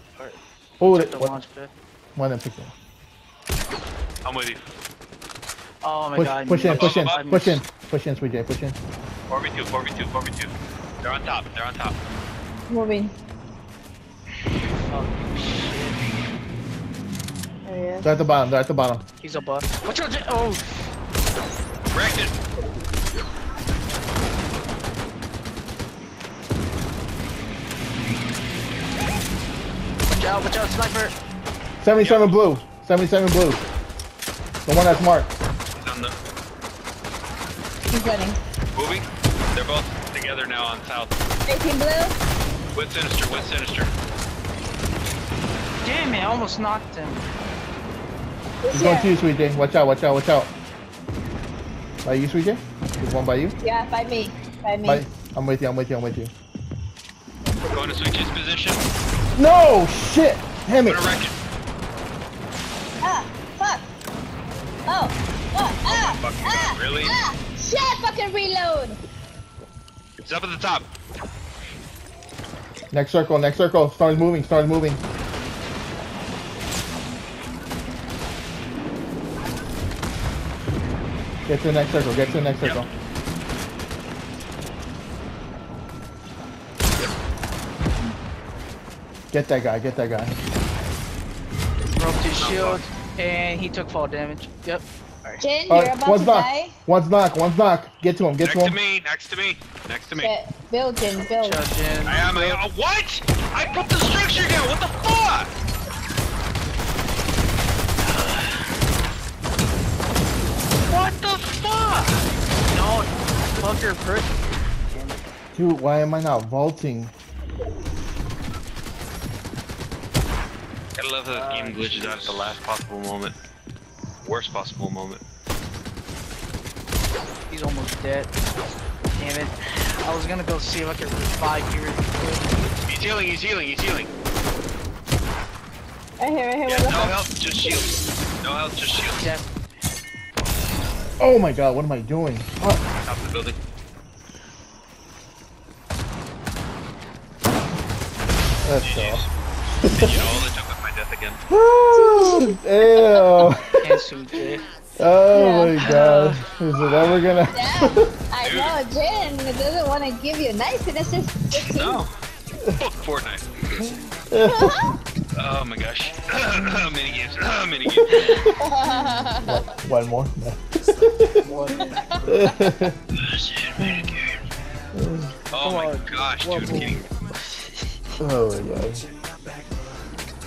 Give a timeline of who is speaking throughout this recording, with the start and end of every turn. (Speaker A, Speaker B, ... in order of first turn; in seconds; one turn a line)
Speaker A: 0.1-1.7
Speaker B: 0.8-1.4
Speaker B: 2.1-2.7
Speaker C: 4.2-4.7
Speaker A: 5.8-7.6
Speaker B: 6.1-8.8
Speaker C: 6.7-7.2
Speaker C: 9.3-11.9
Speaker D: 12.7-13.1
Speaker A: 14.8-16.0
Speaker D: 17.6-18.1
Speaker B: 18.0-19.0
Speaker A: 19.2-20.9
Speaker C: 21.9-22.3
Speaker A: 30.1-31.1
Speaker B: 31.8-33.6
Speaker C: 32.0-32.4
Speaker B: 34.6-35.3
Speaker C: 35.8-36.1
Speaker D: 37.9-38.4
Speaker C: 38.7-41.1
Speaker D: 41.5-42.1
Speaker C: 42.7-43.9
Speaker A: 45.8-47.2
Speaker D: 48.6-49.1
Speaker B: 48.7-50.5
Speaker B: 52.0-53.6
Speaker D: 53.6-55.0
Speaker B: 54.8-56.3
Speaker C: 57.7-58.8
Speaker B: 59.4-61.0
Speaker C: 60.8-61.4
Speaker D: 63.0-63.8
Speaker D: 64.9-69.0
Speaker C: 65.9-67.2
Speaker C: 70.2-70.9
Speaker B: 72.9-75.0
Speaker B: 81.5-82.9
Speaker B: 89.3-90.3
Speaker A: 91.9-95.4
Speaker C: 92.4-92.8
Speaker D: 95.4-96.7
Speaker B: 95.7-98.8
Speaker C: 98.4-100.3
Speaker D: 100.1-101.6
Speaker A: 101.4-102.6
Speaker C: 102.0-105.5
Speaker A: 108.1-108.4
Speaker C: 110.9-112.2
Speaker A: 112.7-114.4
Speaker A: 114.9-115.2
Speaker B: 115.5-117.1
Speaker C: 121.0-123.3
Speaker A: 121.3-122.6
Speaker C: 124.2-125.2
Speaker A: 127.5-128.3
Speaker A: 129.1-132.5
Speaker C: 132.8-134.1
Speaker D: 136.2-137.7
Speaker C: 136.7-139.2
Speaker A: 139.1-139.5
Speaker B: 141.2-142.8
Speaker C: 143.0-143.6
Speaker B: 148.6-149.2
Speaker C: 148.8-149.3
Speaker B: 149.8-150.2
Speaker C: 149.9-151.4
Speaker B: 151.5-153.9
Speaker D: 151.9-153.4
Speaker A: 153.8-154.6
Speaker B: 155.0-158.1
Speaker D: 155.3-155.8
Speaker A: 155.8-156.4
Speaker D: 157.5-162.0
Speaker C: 158.4-158.8
Speaker C: 161.6-162.1
Speaker C: 162.8-163.9
Speaker B: 164.3-164.9
Speaker D: 164.4-164.9
Speaker C: 165.4-168.2
Speaker B: 168.0-168.5
Speaker D: 168.4-169.6
Speaker B: 169.4-171.4
Speaker A: 171.4-172.5
Speaker B: 172.2-172.9
Speaker C: 173.2-174.4
Speaker B: 174.9-175.3
Speaker C: 175.5-177.1
Speaker A: 175.6-177.6
Speaker B: 178.2-179.1